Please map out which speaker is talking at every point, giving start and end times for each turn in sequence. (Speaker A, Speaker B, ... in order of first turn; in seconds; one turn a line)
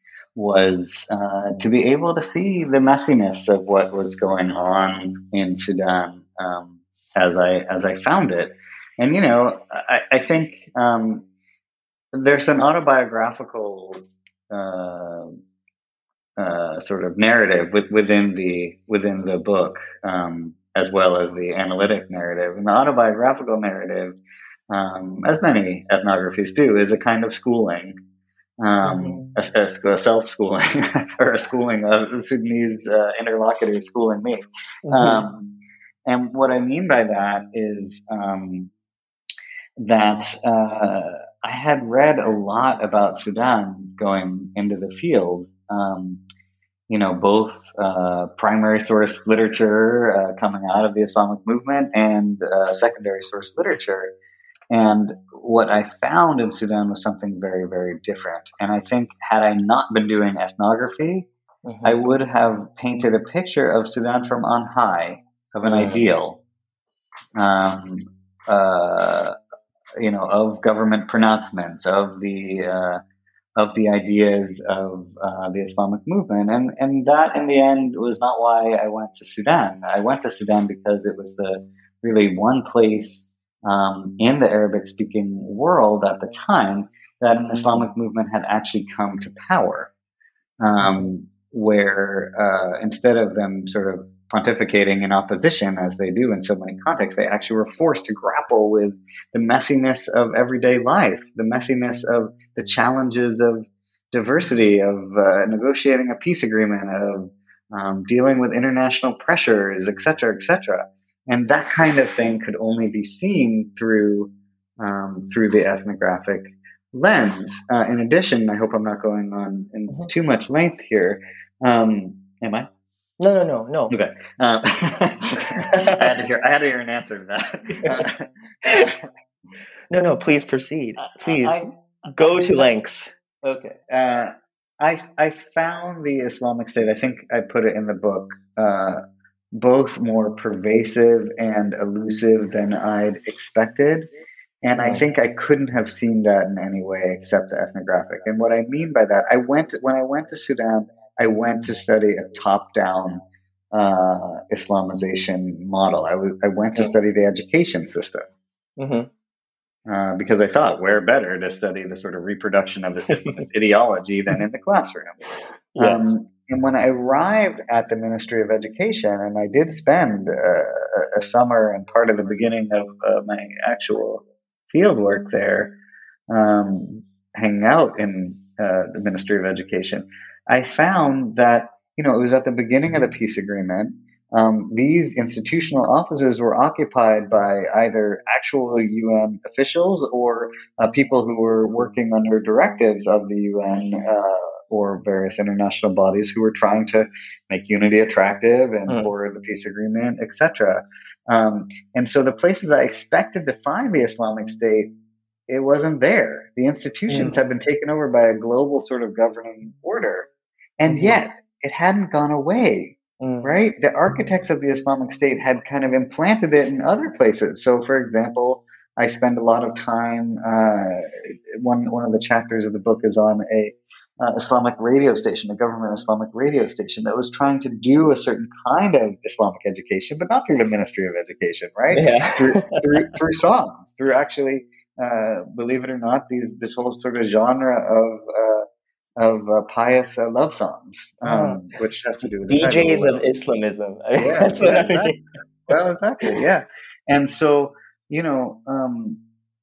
Speaker A: 0.3-11.2
Speaker A: 12.1-15.3
Speaker A: 16.4-24.2
Speaker A: 24.7-27.9
Speaker A: 28.6-35.5
Speaker B: 28.8-29.3
Speaker B: 34.9-35.2
Speaker A: 36.0-38.7
Speaker A: 39.8-46.2
Speaker A: 46.9-54.1
Speaker A: 54.7-61.3
Speaker B: 61.6-62.0
Speaker A: 61.8-66.4
Speaker B: 65.6-66.0
Speaker A: 67.3-69.3
Speaker A: 70.0-73.0
Speaker A: 73.5-89.9
Speaker B: 87.5-87.8
Speaker A: 90.6-122.7
Speaker B: 90.8-91.1
Speaker B: 123.2-123.9
Speaker A: 123.9-129.0
Speaker B: 125.6-126.1
Speaker B: 128.6-128.9
Speaker B: 129.9-133.1
Speaker A: 131.1-132.7
Speaker A: 133.4-139.0
Speaker A: 139.5-144.1
Speaker A: 144.6-158.2
Speaker B: 144.8-145.0
Speaker B: 158.8-159.1
Speaker A: 159.9-165.2
Speaker B: 165.7-166.1
Speaker A: 165.8-175.7
Speaker A: 176.3-204.9
Speaker A: 205.5-238.6
Speaker B: 207.1-207.4
Speaker B: 210.9-211.2
Speaker B: 213.2-213.6
Speaker B: 231.9-232.9
Speaker A: 239.2-243.2
Speaker B: 241.2-241.6
Speaker B: 242.5-245.2
Speaker A: 244.2-249.2